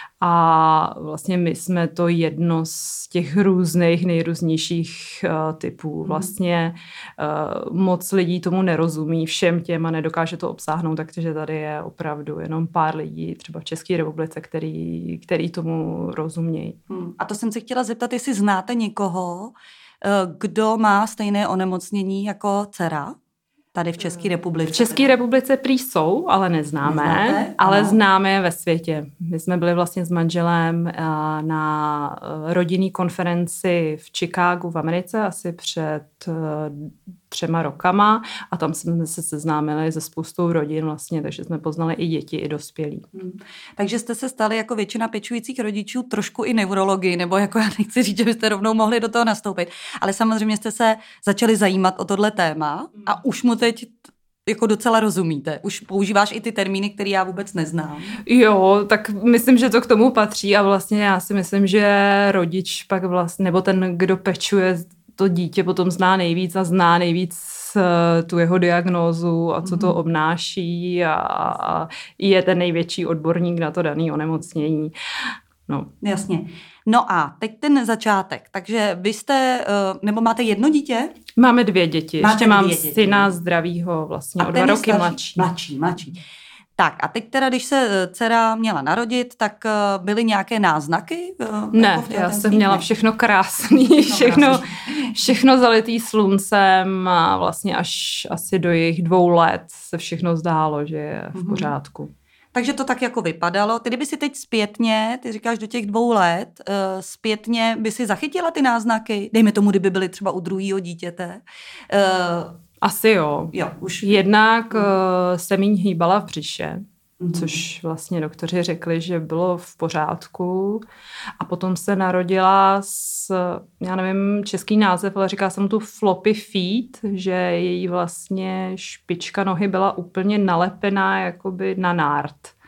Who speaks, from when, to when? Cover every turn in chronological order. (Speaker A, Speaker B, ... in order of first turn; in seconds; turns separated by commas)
Speaker A: 0.2-16.8, Speaker B: 6.1-6.3, Speaker B: 16.9-23.2, Speaker B: 23.7-25.1, Speaker A: 24.1-43.1, Speaker B: 26.9-28.0, Speaker B: 43.1-58.2, Speaker A: 58.3-74.9, Speaker B: 69.6-70.0, Speaker A: 75.7-75.9, Speaker B: 76.0-81.2, Speaker A: 81.4-85.5, Speaker B: 82.2-83.3, Speaker B: 84.4-86.2, Speaker B: 86.8-92.9, Speaker A: 91.7-102.1, Speaker B: 93.7-95.2, Speaker B: 101.3-101.7, Speaker B: 102.5-112.5, Speaker A: 112.8-120.8, Speaker B: 113.5-114.1, Speaker B: 117.2-117.6, Speaker A: 121.4-132.6